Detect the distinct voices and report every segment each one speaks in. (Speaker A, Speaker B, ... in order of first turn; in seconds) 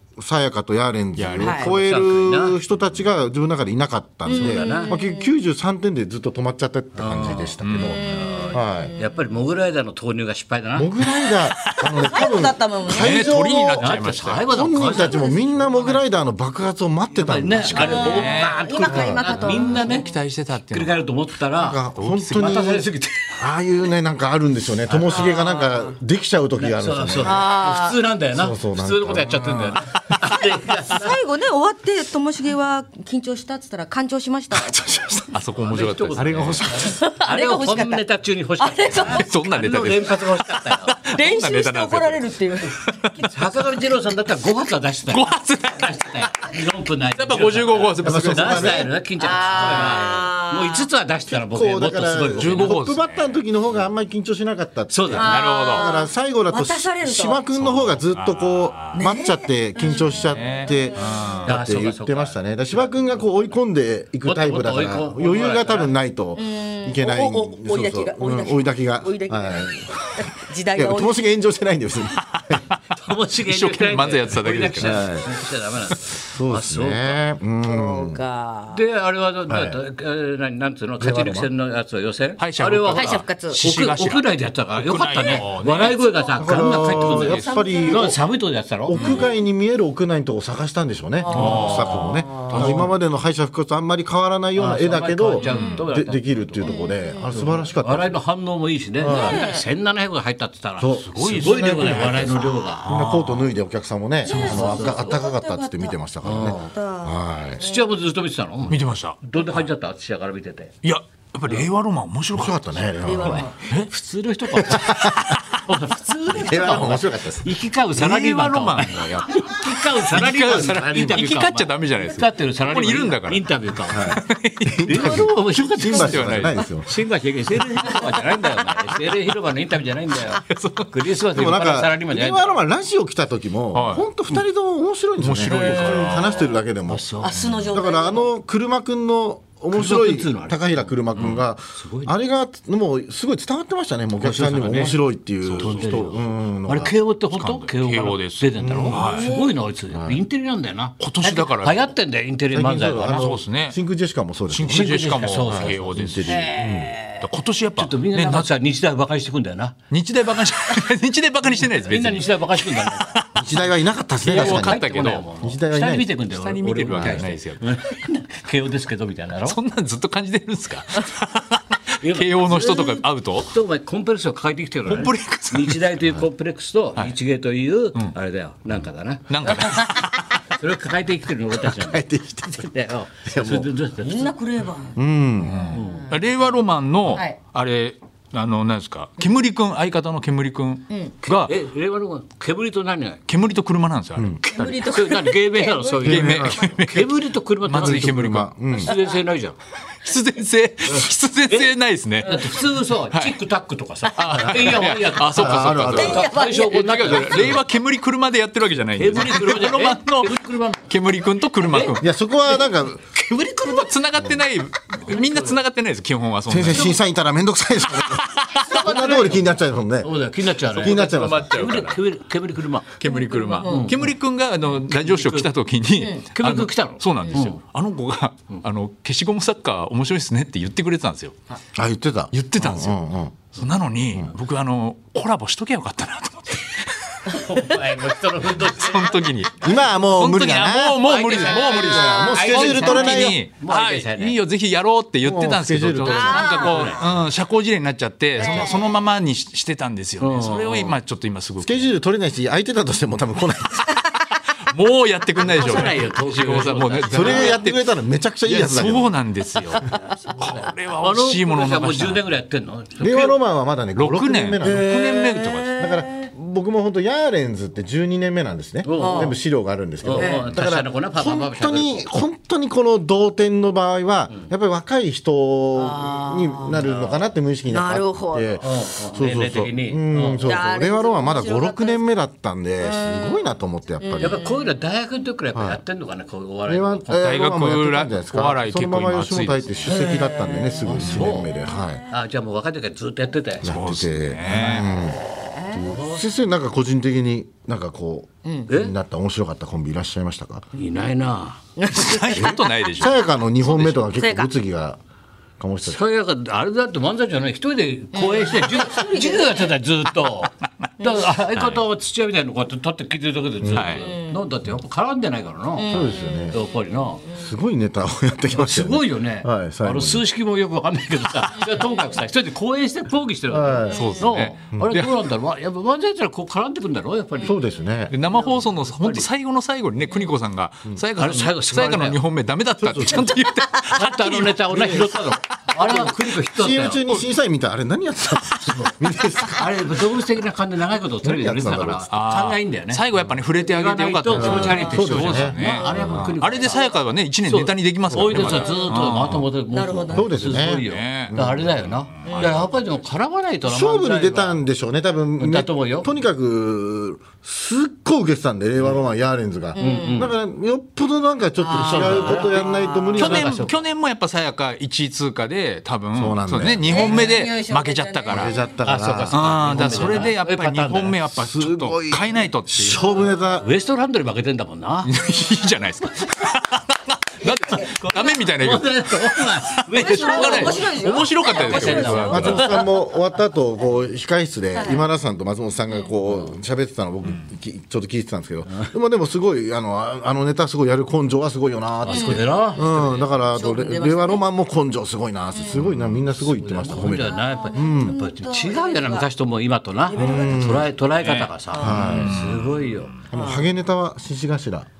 Speaker A: 0.2-8.9, 10.8-18.2, 18.9-19.2, 21.6-22.9, 23.4-27.5, 28.3-29.8, 36.2-37.0, 48.0-48.9, 51.3-70.0, 70.7-72.6, 74.8-75.3, 76.2-78.2, 79.5-79.8, 81.0-81.5, 86.4-88.2, 88.9-98.2, 99.0-99.5, 100.8-107.6, 112.3-113.5, 114.6-115.4, 116.3-117.5, 123.9-126.9, 131.3-137.1, 137.7-146.9, 148.6-149.0, 149.9-150.2, 152.5-156.9, 163.3-164.8, 165.4-166.1, 167.0-167.3, 181.7-182.7, 183.2-183.7, 184.9-185.7, 194.2-194.4, 196.0-196.8, 197.7-198.9, 205.3-206.3, 212.0-213.2, 216.5-221.7, 231.8-233.3, 239.6-241.1, 241.7-243.4, 245.2-246.7, 251.6-254.0, 257.1-259.1, 263.0-265.0, 265.8-284.4, 285.5-285.8, 286.7-292.0, 293.6-295.2, 295.7-300.7, 302.4-305.0, 305.6-306.0, 313.6-314.0, 315.9-316.6, 317.3-320.2, 323.5-324.1, 327.4-328.1, 332.8-333.3, 334.7-335.1, 335.8-339.9, 341.2-342.1, 344.3-346.4, 348.1-348.6, 350.1-351.7, 353.6-363.7, 366.1-367.4, 368.3-370.3, 371.3-373.7, 382.3-398.2, 400.1-400.9, 401.8-402.4, 403.3-404.9
Speaker B: 1.2-1.6, 7.6-8.1, 11.7-12.1, 12.9-14.5, 17.7-18.6, 19.2-21.0, 21.9-22.8, 34.6-36.8, 39.0-43.3, 45.1-46.0, 47.2-48.8, 52.4-53.4, 55.2-56.0, 57.6-59.0, 60.0-61.6, 73.5-75.0, 82.4-86.1, 91.3-92.7, 95.4-95.8, 101.0-103.5, 108.7-109.2, 110.8-112.8, 118.0-126.6, 130.4-130.9, 133.7-134.4, 135.2-136.5, 141.2-141.4, 145.4-145.8, 147.3-149.3, 151.0-151.8, 153.0-153.8, 154.5-156.6, 157.2-158.5, 159.9-163.5, 164.2-165.3, 166.3-167.7, 169.5-173.5, 174.9-175.9, 179.3-180.4, 185.4-191.5, 193.3-194.4, 196.0-198.5, 200.0-203.3, 204.1-212.1, 213.6-217.0, 218.1-218.7, 220.7-222.0, 223.0-231.3, 232.3-233.0, 233.5-237.2, 238.5-251.9, 254.7-257.9, 258.4-262.2, 264.0-265.8, 287.2-289.8, 293.6-295.0, 301.9-303.2, 313.7-314.0, 323.9-325.2, 328.1-335.0, 342.1-349.4, 350.7-352.8, 363.2-368.6, 369.3-373.0, 375.0-382.8, 401.2-403.2
Speaker C: 1.4-1.7, 4.3-5.3, 7.8-9.2, 12.0-13.4, 14.7-15.6, 17.7-20.1, 25.1-25.9, 27.2-28.0, 30.3-35.2, 36.9-38.0, 38.6-39.3, 41.0-43.3, 49.2-50.9, 55.1-57.5, 58.9-61.4, 66.4-71.2, 77.7-78.8, 82.9-83.6, 86.1-88.2, 88.9-89.4, 91.2-92.7, 96.6-97.5, 99.0-99.7, 104.2-107.9, 113.0-113.6, 127.9-128.3, 137.2-138.3, 148.9-149.6, 156.3-157.2, 179.7-179.9, 184.0-186.1, 187.1-187.3, 194.4-196.7, 205.9-207.4, 223.1-223.9, 241.3-242.5, 246.1-247.0, 248.4-248.9, 264.6-266.2, 268.9-269.4, 270.2-270.5, 275.8-276.8, 277.7-278.6, 280.4-282.0, 282.8-283.4, 284.0-284.6, 289.9-291.8, 301.8-302.7, 304.1-304.5, 308.1-309.7, 314.0-314.4, 315.8-317.5, 321.6-322.1, 323.9-324.2, 344.4-344.9, 346.5-346.8, 348.4-349.0, 349.7-350.3, 352.2-352.6, 359.8-360.3, 361.6-363.4, 366.9-368.7, 377.4-377.9, 379.9-382.9, 384.8-385.0, 392.1-394.4, 395.5-395.9, 397.0-399.3, 400.1-400.9, 401.7-402.1, 403.3-403.7
Speaker D: 1.4-2.6, 4.3-4.9, 7.0-10.9, 13.8-16.0, 17.1-20.1, 20.7-21.8, 22.3-23.4, 24.9-25.4, 26.6-31.2, 35.6-41.1, 43.3-52.8, 54.9-55.4, 61.5-63.2, 64.2-65.9, 72.9-77.2, 78.7-89.2, 91.3-92.9, 94.5-102.8, 104.3-105.0, 106.2-106.7, 107.6-110.7, 113.3-124.2, 124.8-132.6, 135.5-136.2, 136.9-137.4, 139.7-142.1, 144.2-145.0, 145.6-153.4, 154.7-156.4, 157.8-159.8, 161.8-163.1, 164.2-169.6, 172.0-179.5, 180.5-184.3, 185.7-186.1, 191.5-193.2, 194.4-199.6, 200.9-207.6, 209.0-210.8, 211.7-212.0, 213.2-213.9, 215.1-215.6, 218.6-223.0, 223.6-224.0, 224.9-225.5, 226.3-227.6, 237.3-239.2, 241.0-244.4, 246.4-247.0, 250.2-250.9, 255.4-257.6, 261.0-263.4, 268.8-269.4, 270.0-272.1, 276.7-277.2, 278.6-280.5, 284.2-287.3, 290.9-291.5, 292.1-293.7, 295.8-296.2, 298.7-298.9, 300.7-301.6, 305.8-317.2, 318.5-329.3, 331.2-332.2, 333.9-337.0, 338.7-343.0, 343.6-346.9, 347.5-354.6, 355.4-356.1, 359.8-360.4, 361.7-363.8, 368.8-371.2, 373.6-375.2, 377.9-382.8, 392.0-393.2, 396.4-403.1